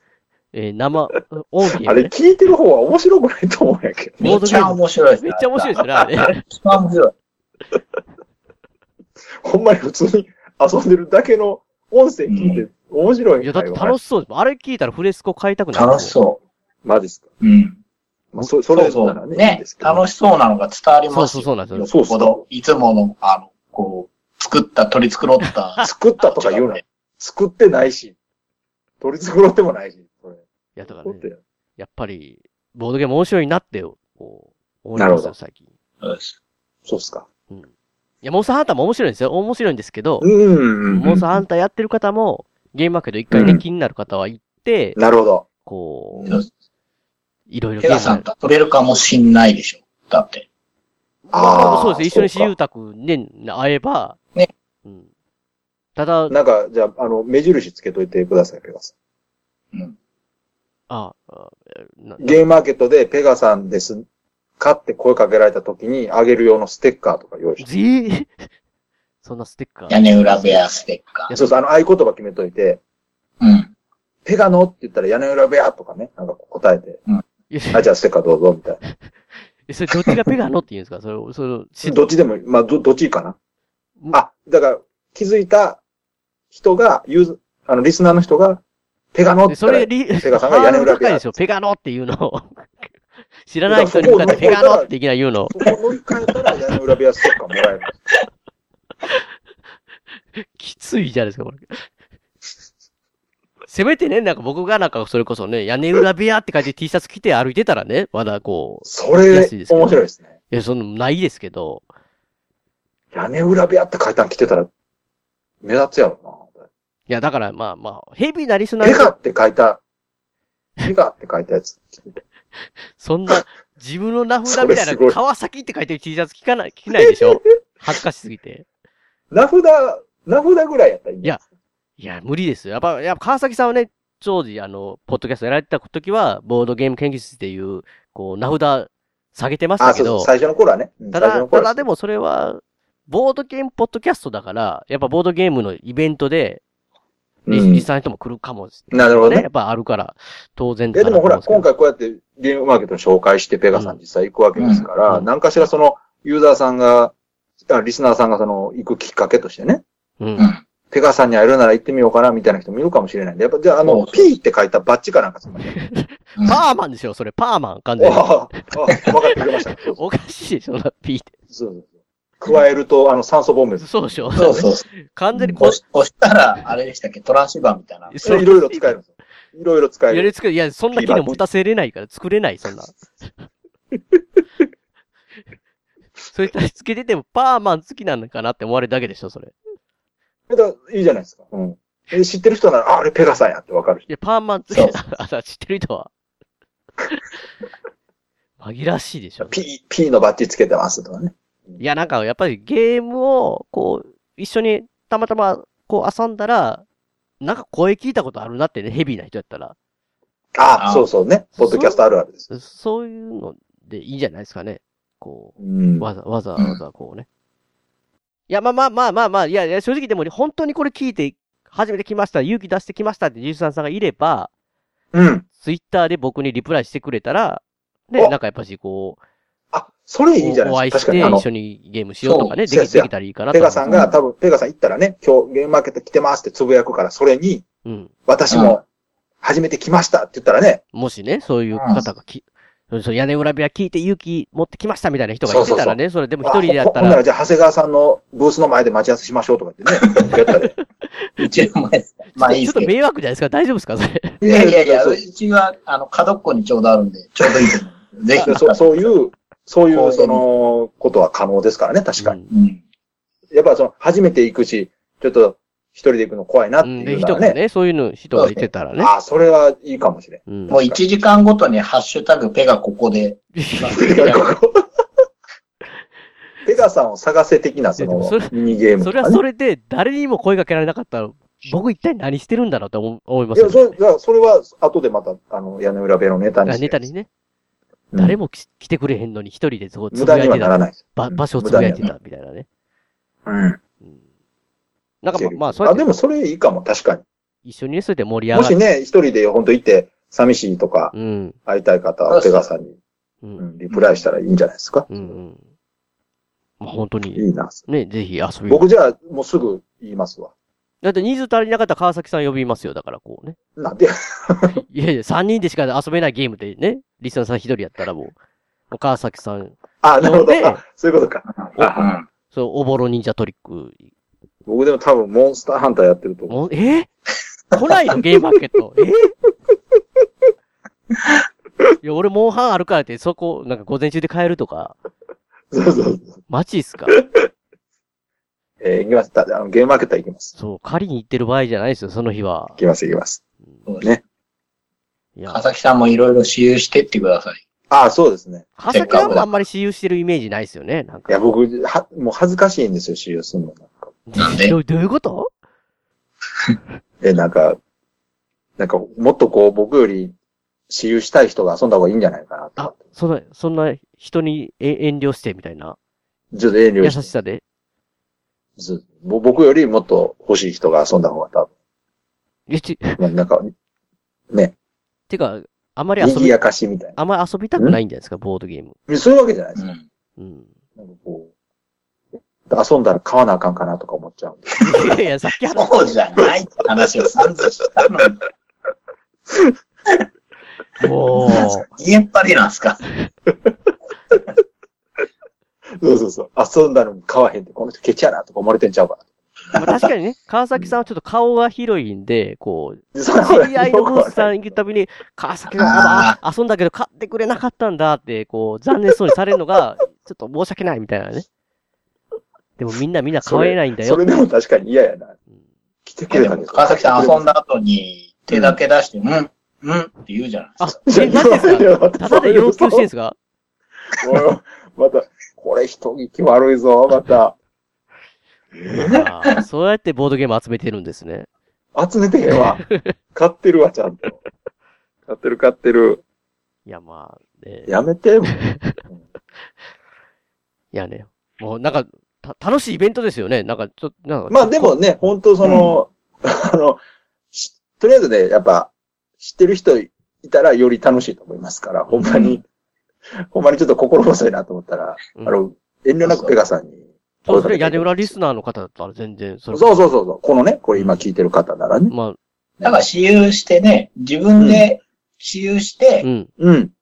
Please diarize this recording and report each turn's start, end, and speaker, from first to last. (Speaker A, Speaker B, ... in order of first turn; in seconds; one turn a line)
Speaker A: 0.5-2.1
Speaker B: 1.8-4.5
Speaker A: 4.2-6.4
Speaker C: 4.2-7.1
Speaker B: 9.4-13.9
Speaker C: 12.3-12.6
Speaker A: 13.4-16.1
Speaker C: 15.7-16.4
Speaker B: 16.8-17.3
Speaker C: 17.4-17.8
Speaker B: 18.3-20.0
Speaker C: 18.7-25.8
Speaker A: 21.1-21.9
Speaker B: 21.8-22.4
Speaker A: 25.4-25.9
Speaker B: 25.8-28.1
Speaker C: 26.3-26.8
Speaker B: 29.0-31.4
Speaker A: 30.8-31.2
Speaker A: 31.8-35.6
Speaker B: 35.0-35.3
Speaker C: 36.0-36.3
Speaker B: 36.9-37.2
Speaker A: 38.2-40.3
Speaker B: 40.2-41.4
Speaker A: 40.9-45.0
Speaker B: 43.3-43.6
Speaker B: 45.0-45.5
Speaker A: 45.6-46.4
Speaker B: 46.1-46.4
Speaker A: 47.5-48.3
Speaker C: 47.8-50.4
Speaker A: 51.3-54.2
Speaker B: 51.3-52.5
Speaker A: 56.0-56.3
Speaker B: 56.3-58.9
Speaker A: 60.9-62.4
Speaker B: 62.2-64.0
Speaker B: 64.6-67.6
Speaker A: 67.6-68.5
Speaker A: 69.2-70.6
Speaker C: 69.9-71.3
Speaker A: 71.3-71.6
Speaker B: 71.3-72.8
Speaker C: 73.4-73.7
Speaker B: 74.2-77.0
Speaker A: 77.5-77.9
Speaker B: 77.7-78.8
Speaker A: 79.7-82.1
Speaker B: 81.8-83.3
Speaker B: 84.1-85.8
Speaker B: 86.5-88.6
Speaker B: 89.1-91.3
Speaker A: 89.5-92.9
Speaker A: 93.5-95.5
Speaker B: 93.7-94.9
Speaker B: 95.5-98.0
Speaker A: 100.4-101.8
Speaker A: 103.7-111.8
Speaker B: 108.8-110.3
Speaker B: 113.1-114.7
Speaker B: 115.6-116.6
Speaker A: 117.1-119.1
Speaker B: 118.8-119.8
Speaker B: 120.8-122.2
Speaker A: 122.6-128.6
Speaker B: 124.5-125.2
Speaker B: 127.0-127.3
Speaker B: 129.3-131.4
Speaker A: 132.0-140.3
Speaker B: 139.8-141.8
Speaker A: 141.1-146.6
Speaker B: 147.4-147.8
Speaker A: 147.5-151.7
Speaker B: 148.9-149.4
Speaker B: 150.9-157.1
Speaker A: 153.7-154.0
Speaker C: 154.6-154.8
Speaker B: 157.7-159.8
Speaker A: 160.2-160.5
Speaker B: 160.9-165.7
Speaker C: 163.8-164.3
Speaker A: 165.8-169.0
Speaker B: 168.0-170.0
Speaker A: 169.8-171.3
Speaker B: 171.5-171.9
Speaker B: 172.4-174.2
Speaker A: 173.8-175.8
Speaker C: 174.3-174.8
Speaker B: 175.3-175.6
Speaker C: 175.6-178.1
Speaker A: 178.1-178.9
Speaker B: 178.2-180.3
Speaker A: 180.1-183.0
Speaker B: 180.9-181.4
Speaker A: 186.3-189.5
Speaker B: 190.5-194.1
Speaker A: 194.1-196.1
Speaker C: 194.7-195.0
Speaker A: 198.6-199.6
Speaker B: 199.4-201.8
Speaker A: 201.8-206.8
Speaker A: 207.4-209.8
Speaker B: 210.6-212.5
Speaker C: 210.8-211.0
Speaker A: 211.6-217.2
Speaker B: 215.6-216.1
Speaker A: 218.5-224.5
Speaker B: 225.1-225.4
Speaker A: 225.6-229.2
Speaker B: 229.7-231.4
Speaker A: 230.4-233.9
Speaker C: 232.2-232.5
Speaker B: 232.7-237.6
Speaker C: 233.9-234.1
Speaker A: 237.8-238.1
Speaker B: 238.3-238.8
Speaker C: 238.5-238.8
Speaker B: 239.4-240.8
Speaker A: 240.9-247.2
Speaker C: 241.7-242.0
Speaker B: 245.4-250.7
Speaker C: 250.0-250.3
Speaker C: 251.4-252.9
Speaker A: 252.3-254.4
Speaker B: 254.4-255.2
Speaker C: 254.4-259.0
Speaker B: 258.4-262.4
Speaker C: 259.9-260.4
Speaker A: 262.2-262.5
Speaker C: 262.5-262.8
Speaker B: 263.5-267.6
Speaker A: 266.8-269.1
Speaker C: 268.3-268.6
Speaker B: 269.0-271.0
Speaker A: 270.5-270.7
Speaker C: 270.7-274.5
Speaker A: 273.5-274.0
Speaker B: 273.9-274.8
Speaker B: 276.6-279.4
Speaker A: 278.0-283.9
Speaker B: 283.5-287.0
Speaker A: 286.6-287.3
Speaker B: 288.1-288.4
Speaker A: 288.2-292.6
Speaker B: 290.1-292.1
Speaker B: 293.4-293.8
Speaker A: 295.2-296.0
Speaker B: 295.3-297.2
Speaker A: 297.6-298.8
Speaker B: 298.5-301.1
Speaker A: 301.1-301.6
Speaker B: 301.7-302.9
Speaker C: 302.3-302.6
Speaker B: 303.6-305.3
Speaker A: 305.1-305.6
Speaker A: 306.8-308.8
Speaker B: 307.3-307.8
Speaker B: 308.7-310.5
Speaker A: 311.0-313.6
Speaker B: 313.8-314.8
Speaker A: 314.9-318.3
Speaker A: 318.9-320.8
Speaker B: 320.0-322.1
Speaker C: 321.6-322.2
Speaker A: 322.5-324.0
Speaker B: 324.6-326.6
Speaker A: 326.5-327.1
Speaker A: 327.7-329.3
Speaker A: 332.0-334.9
Speaker B: 335.7-336.4
Speaker A: 336.5-337.2
Speaker B: 338.8-340.5
Speaker A: 340.6-342.8
Speaker B: 342.8-343.4
Speaker A: 345.4-345.6
Speaker C: 345.5-347.6
Speaker B: 347.9-349.4
Speaker A: 348.8-351.4
Speaker C: 348.9-349.5
Speaker B: 351.3-354.1
Speaker A: 354.3-355.5
Speaker C: 354.4-354.8
Speaker B: 357.2-357.8
Speaker B: 358.8-360.3
Speaker B: 360.9-363.0
Speaker A: 362.8-366.0
Speaker B: 366.5-367.3
Speaker A: 367.0-367.6
Speaker B: 368.8-371.7
Speaker A: 372.7-373.2
Speaker B: 373.2-373.7
Speaker A: 375.3-376.6
Speaker B: 376.2-377.2
Speaker A: 377.2-378.9
Speaker B: 379.1-379.8
Speaker C: 379.8-380.0
Speaker A: 380.4-380.7
Speaker B: 381.0-381.5
Speaker B: 382.7-384.8
Speaker A: 384.8-385.9
Speaker C: 385.7-388.4
Speaker A: 391.0-391.9
Speaker C: 391.5-393.0
Speaker B: 396.0-399.2
Speaker A: 399.7-411.4
Speaker B: 403.1-404.7
Speaker C: 405.8-406.4
Speaker A: 412.8-414.2
Speaker B: 413.4-415.4
Speaker B: 416.1-417.5
Speaker C: 416.3-420.9
Speaker B: 418.5-418.8
Speaker A: 420.8-423.4
Speaker B: 421.1-423.1
Speaker B: 424.2-427.5
Speaker B: 428.9-429.2
Speaker A: 429.0-431.5
Speaker B: 431.9-432.8
Speaker A: 432.5-433.1
Speaker B: 433.3-434.4
Speaker B: 435.3-436.2
Speaker A: 436.9-437.9
Speaker B: 437.9-438.6
Speaker A: 438.6-438.9
Speaker A: 440.9-445.0
Speaker B: 444.5-447.0
Speaker C: 445.6-445.9
Speaker B: 447.5-452.6
Speaker C: 452.2-452.6
Speaker B: 453.5-458.3
Speaker C: 456.2-456.5
Speaker A: 457.4-459.9
Speaker B: 459.7-462.1
Speaker A: 462.1-462.4
Speaker C: 462.8-466.2
Speaker B: 464.6-464.9
Speaker A: 466.2-466.5
Speaker B: 466.6-466.9